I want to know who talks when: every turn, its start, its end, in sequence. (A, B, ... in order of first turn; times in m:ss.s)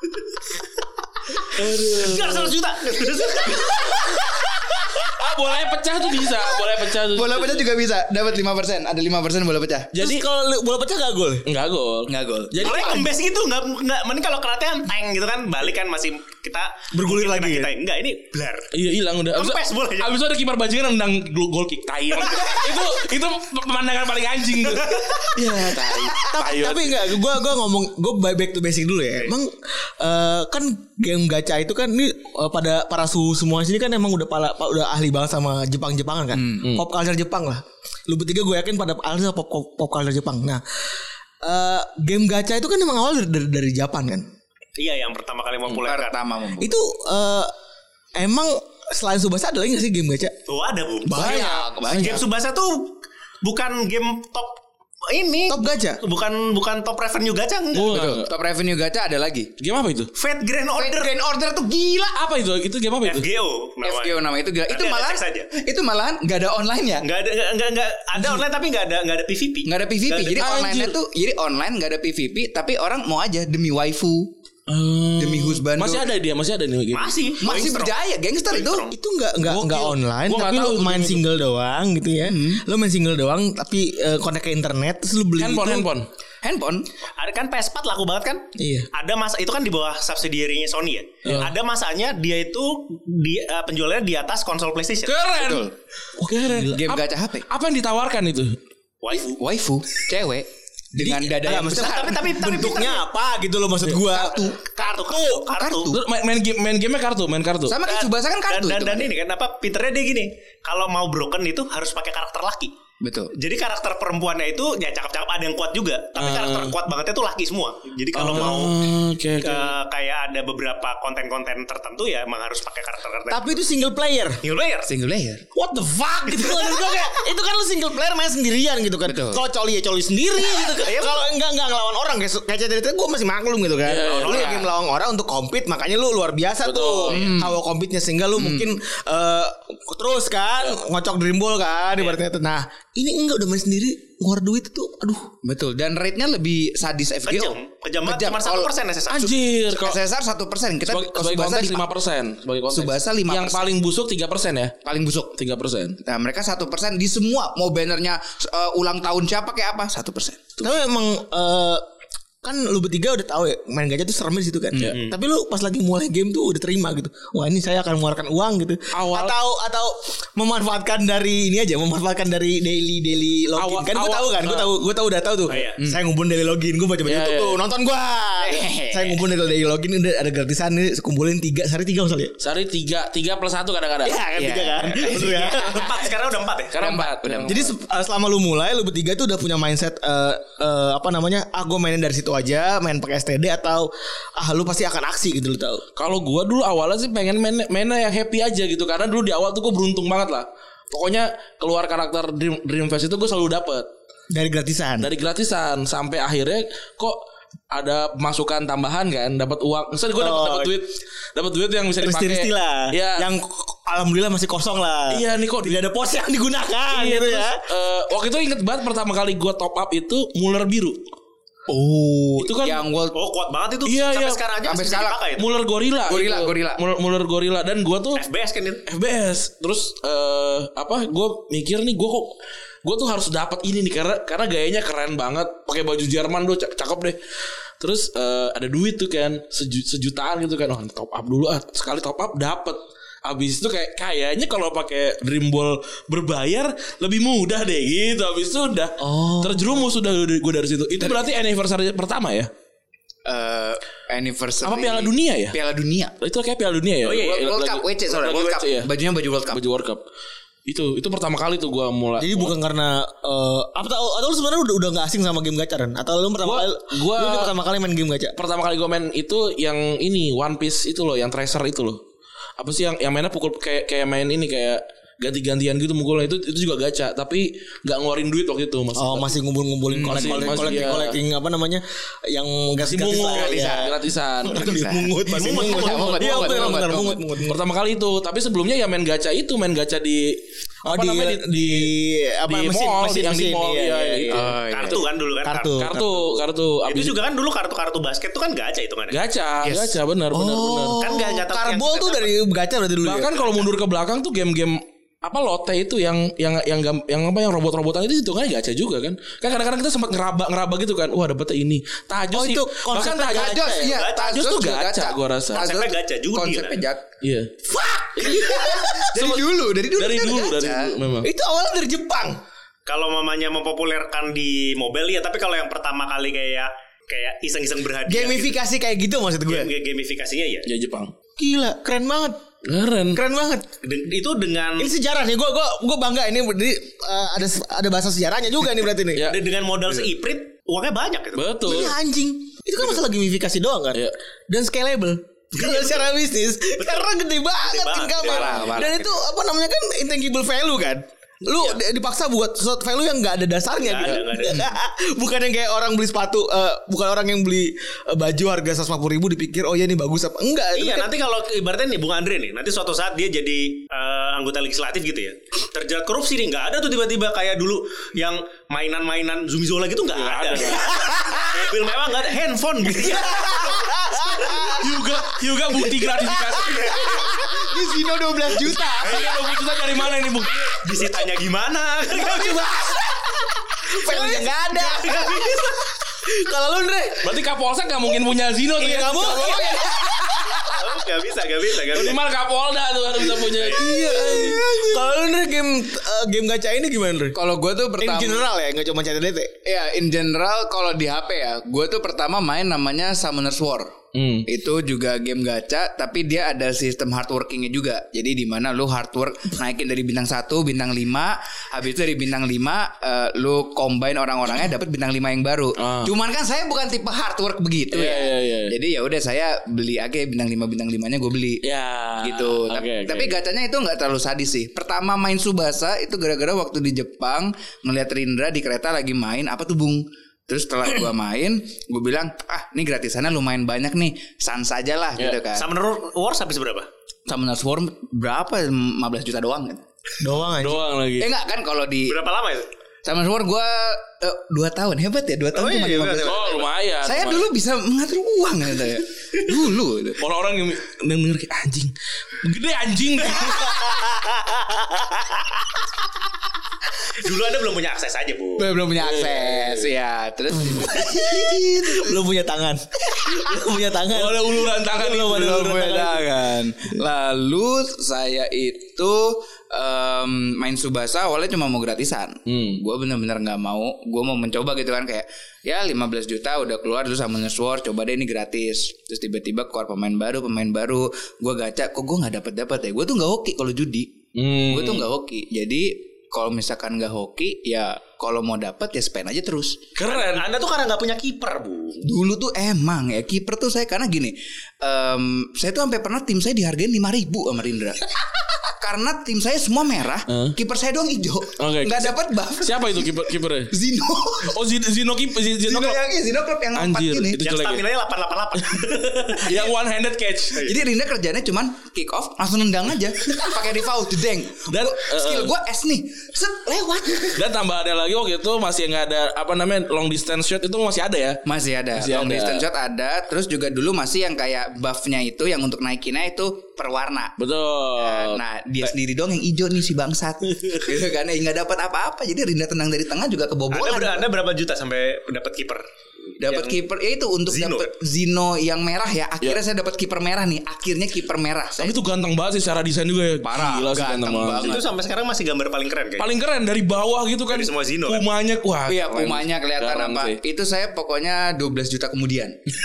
0:01.5-0:02.6 A
0:01.6-0:04.1 B
0:05.0-0:07.7 A
0:07.1-0:09.9 C
0:09.9-0:10.2 A
0:10.0-0:11.5 D
0:11.5-0:13.1 A
0:12.1-0:12.8 C
0:12.6-0:18.7 B
0:16.9-0:17.7 D
0:18.7-0:27.2 A
0:19.3-0:20.2 B
0:22.1-0:22.7 B
0:24.9-0:25.3 B
0:25.4-0:40.6 D
0:36.3-0:36.7 C
0:41.4-0:44.3 D
0:44.8-0:46.2 B
0:45.8-0:46.8 C
0:46.6-0:47.5 D
0:48.2-0:50.3 D
0:50.5-0:58.0 B
0:51.1-0:52.3 C
0:51.2-0:51.4 A
0:55.5-0:56.0 D
0:57.7-0:58.3 A
0:57.9-0:59.5 C
0:59.6-1:00.1 A
1:00.2-1:01.1 B
1:00.8-1:02.2 C
1:02.2-1:03.3 A
1:03.0-1:05.5 B
1:03.8-1:07.0 C
1:07.0-1:10.4 B
1:09.6-1:14.3 C
1:10.4-1:11.0 A
1:14.7-1:17.2 A
1:15.2-1:16.0 C
1:16.9-1:18.0 B
1:17.4-1:18.9 C
1:18.5-1:18.9 B
1:18.9-1:25.9 D
1:19.4-1:21.2 A
1:22.2-1:22.6 C
1:25.4-1:26.1 A
1:26.4-1:26.9 C
1:27.2-1:35.2 B
1:28.6-1:28.9 D
1:31.3-1:31.5 A
1:35.1-1:35.7 A
1:35.4-1:35.7 C
1:36.2-1:38.6 A
1:36.4-1:36.7 D
1:36.7-1:37.5 C
1:39.0-1:39.4 B
1:39.2-1:42.2 C
1:41.0-1:45.5 D
1:41.6-1:43.0 B
1:44.1-1:44.8 C
1:44.7-1:45.9 B
1:45.5-1:46.0 C
1:45.9-1:47.8 A
1:47.7-1:49.1 C
1:47.8-1:52.7 B
1:53.0-1:53.3 C
1:53.4-1:58.8 B
1:56.2-1:56.8 A
1:58.1-1:59.8 A
1:59.4-2:03.5 B
2:03.3-2:04.4 D
2:04.4-2:04.9 B
2:04.9-2:05.4 C
2:05.5-2:25.3 D
2:06.3-2:06.8 B
2:09.0-2:09.4 C
2:13.8-2:14.5 A
2:14.1-2:14.7 B
2:16.6-2:17.2 A
2:17.1-2:17.6 C
2:25.4-2:28.7 C
2:27.3-2:29.4 B
2:29.1-2:30.0 A
2:29.7-2:31.8 C
2:30.9-2:34.8 A
2:32.7-2:33.7 C
2:34.8-2:35.3 C
2:35.4-2:36.0 A
2:36.0-2:40.4 C
2:40.6-2:41.8 D
2:42.4-3:02.4 D
2:44.7-2:45.0 C
2:48.9-2:49.4 A
2:53.6-2:54.7 A
2:55.5-2:55.8 B
2:57.0-2:57.6 A
2:58.4-2:59.2 C
3:02.4-3:04.2 A
3:04.0-3:06.0 D
3:04.2-3:05.9 C
3:05.0-3:06.8 B
3:06.7-3:07.6 A
3:06.8-3:07.6 C
3:07.5-3:15.8 D
3:16.0-3:23.9 A
3:24.3-3:25.1 D
3:25.0-3:27.2 A
3:27.7-3:33.3 A
3:30.2-3:30.8 D
3:32.0-3:37.6 D
3:35.1-3:35.8 A
3:36.9-3:41.0 A
3:41.7-3:43.2 C
3:42.4-3:42.8 A
3:43.1-3:45.5 B
3:43.8-3:44.4 A
3:44.6-3:45.2 C
3:45.4-3:48.2 A
3:46.1-3:46.8 C
3:48.2-3:48.8 B
3:48.9-3:57.2 A
3:57.8-4:12.5 A
4:09.0-4:09.8 D
4:13.3-4:16.1 C
4:14.6-4:15.6 A
4:16.2-4:18.9 A
4:17.0-4:17.5 B
4:17.1-4:19.6 C
4:19.5-4:20.0 A
4:20.7-4:22.5 A
4:22.2-4:28.4 D
4:26.4-4:27.5 A
4:28.4-4:32.0 A
4:32.6-4:39.3 A
4:39.0-4:47.6 D
4:40.0-4:41.2 A
4:40.0-4:40.5 C
4:42.8-4:44.9 A
4:43.3-4:43.9 C
4:44.6-4:47.2 C
4:45.3-4:46.6 B
4:47.4-4:51.9 A
4:50.8-4:54.5 D
4:52.5-4:55.0 A
4:54.3-4:55.0 C
4:54.7-4:55.8 B
4:55.4-4:56.4 D
4:55.8-4:57.2 A
4:56.9-4:59.2 B
4:59.1-5:01.0 A
4:59.6-5:00.0 C
5:00.3-5:03.7 D
5:01.0-5:02.3 B
5:03.0-5:15.7 A
5:12.3-5:14.0 D
5:13.2-5:17.0 C
5:13.8-5:14.3 B
5:15.5-5:16.8 B
5:17.2-5:17.6 A
5:17.7-5:19.1 D
5:18.2-5:21.3 A
5:18.2-5:20.9 C
5:21.2-5:22.4 D
5:22.9-5:28.6 B
5:28.1-5:29.7 D
5:29.5-5:30.7 B
5:30.7-5:31.1 A
5:31.4-5:32.4 D
5:32.6-5:33.2 A
5:33.1-5:33.7 D
5:33.8-5:34.9 B
5:34.8-5:39.3 D
5:39.2-5:39.4 A
5:39.3-5:41.6 B
5:41.4-5:42.0 A
5:41.6-6:01.1 D
5:45.6-5:46.1 B
5:46.8-5:49.0 B
5:48.2-5:49.1 C
5:53.8-5:54.7 B
6:00.8-6:14.8 B
6:10.1-6:11.0 A
6:11.0-6:11.4 D
6:13.0-6:15.1 D
6:14.8-6:17.2 A
6:15.9-6:19.4 D
6:19.0-6:20.8 A
6:20.7-6:23.0 B
6:22.2-6:27.3 D
6:24.0-6:25.8 B
6:27.2-6:30.1 A
6:28.8-6:30.8 D
6:30.6-6:32.2 B
6:31.9-6:34.6 A
6:33.6-6:33.9 B
6:33.7-6:37.4 D
6:37.3-6:38.4 C
6:38.0-6:39.6 D
6:39.6-6:43.9 C
6:44.1-6:44.5 A
6:44.5-7:01.6 C
6:55.8-6:56.1 A
6:57.9-6:58.7 A
7:01.6-7:03.4 A
7:02.2-7:15.7 C
7:15.5-7:16.9 B
7:17.3-7:19.8 C
7:20.2-7:20.8 D
7:20.6-7:21.3 A
7:21.2-7:22.2 C
7:22.1-7:22.7 B
7:23.0-7:26.5 C
7:25.6-7:26.0 D
7:25.6-7:26.7 B
7:26.2-7:27.5 A
7:27.0-7:30.2 C
7:30.2-7:34.0 A
7:33.8-7:35.0 D
7:37.1-7:38.7 B
7:38.6-7:41.7 C
7:39.0-7:39.9 A
7:40.7-7:46.2 D
7:44.1-7:46.1 A
7:45.3-8:04.1 C
7:52.5-7:52.8 A
8:04.4-8:05.1 A
8:04.7-8:09.8 C
8:10.0-8:10.5 A
8:10.0-8:12.0 B
8:12.0-8:18.2 C
8:18.8-8:23.0 C
8:20.3-8:20.6 A
8:21.6-8:23.7 A
8:23.7-8:24.5 C
8:24.4-8:26.0 A
8:25.6-8:27.4 C
8:26.7-8:27.9 A
8:27.4-8:29.7 B
8:28.6-8:30.6 A
8:30.5-8:30.8 B
8:30.6-8:37.4 C
8:34.7-8:35.5 A
8:37.3-8:41.4 A
8:41.4-8:47.3 C
8:42.0-8:42.6 A
8:47.4-8:48.4 A
8:48.0-8:54.3 C
8:53.7-8:55.8 B
8:56.4-9:02.0 C
8:56.4-8:56.8 B
8:57.5-8:57.9 B
9:01.8-9:04.8 A
9:03.4-9:04.8 C
9:04.6-9:06.3 B
9:06.2-9:10.4 A
9:07.5-9:08.2 B
9:08.9-9:12.6 C